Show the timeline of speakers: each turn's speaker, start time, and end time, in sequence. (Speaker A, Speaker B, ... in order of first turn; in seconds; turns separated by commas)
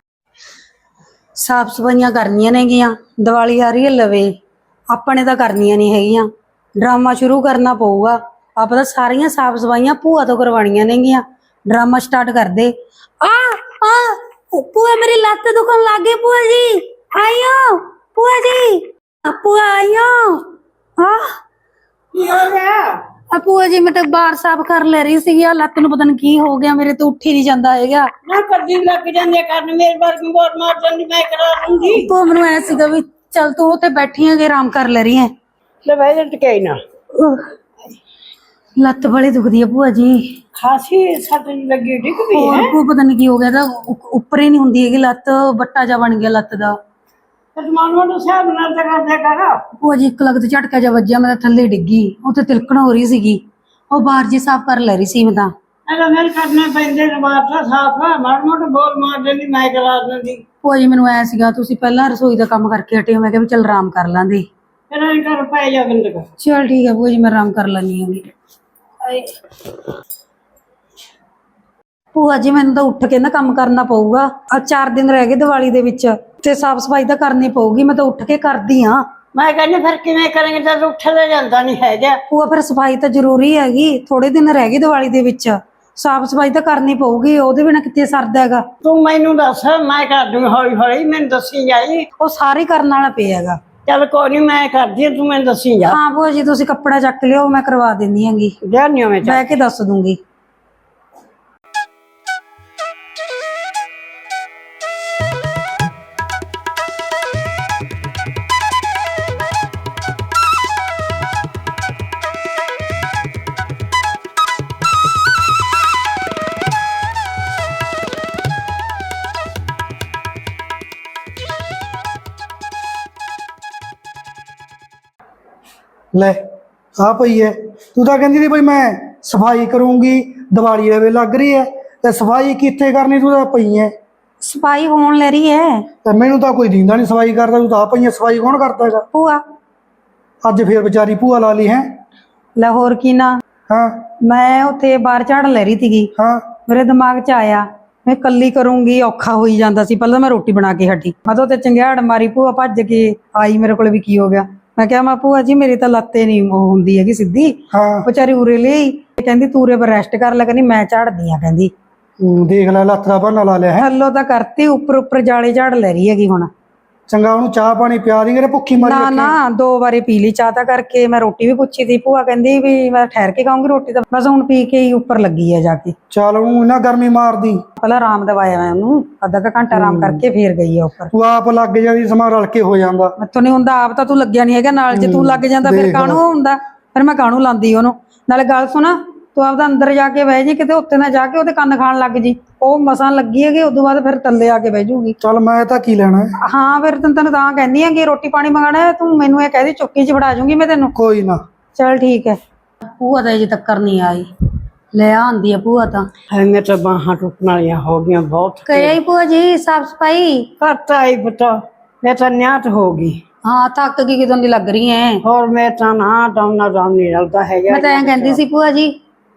Speaker A: 1.4-4.3, Speaker A: 4.9-21.4, Speaker B: 22.1-23.0, Speaker A: 23.3-28.1, Speaker B: 28.2-32.1, Speaker A: 31.9-35.3, Speaker B: 35.8-36.8, Speaker A: 37.1-37.5, Speaker A: 38.8-40.4, Speaker B: 40.6-42.7, Speaker A: 42.3-46.8, Speaker B: 47.5-49.6, Speaker A: 49.7-55.5, Speaker B: 55.9-60.4, Speaker A: 60.6-64.5, Speaker B: 64.9-66.3, Speaker A: 66.4-68.2, Speaker A: 69.0-69.3, Speaker A: 72.1-79.0, Speaker B: 79.3-82.2, Speaker A: 82.3-88.7, Speaker B: 88.8-92.0, Speaker A: 92.2-93.6, Speaker B: 93.8-96.0, Speaker A: 95.8-98.5, Speaker B: 98.6-99.5, Speaker A: 99.2-100.2, Speaker C: 126.1-126.4, Speaker C: 127.0-133.9, Speaker A: 134.4-135.8, Speaker C: 136.0-139.0, Speaker A: 139.1-139.4, Speaker C: 140.4-141.9, Speaker A: 142.6-143.4, Speaker C: 143.7-144.0, Speaker A: 144.2-146.1, Speaker C: 146.2-146.4, Speaker A: 146.7-161.7, Speaker C: 157.7-158.1, Speaker C: 162.2-163.9, Speaker A: 163.8-166.5, Speaker C: 167.1-169.3, Speaker A: 168.8-175.9, Speaker C: 176.1-177.6, Speaker A: 177.8-181.1, Speaker C: 179.7-180.2, Speaker C: 181.1-183.2, Speaker A: 183.2-195.2, Speaker C: 184.9-186.2, Speaker C: 195.2-196.3, Speaker A: 196.4-200.9, Speaker C: 200.9-201.4, Speaker A: 201.8-204.3, Speaker A: 204.9-206.1, Speaker B: 206.3-209.0, Speaker A: 208.7-210.5, Speaker B: 210.6-213.2, Speaker A: 213.4-215.2, Speaker B: 215.2-218.4, Speaker A: 217.7-218.9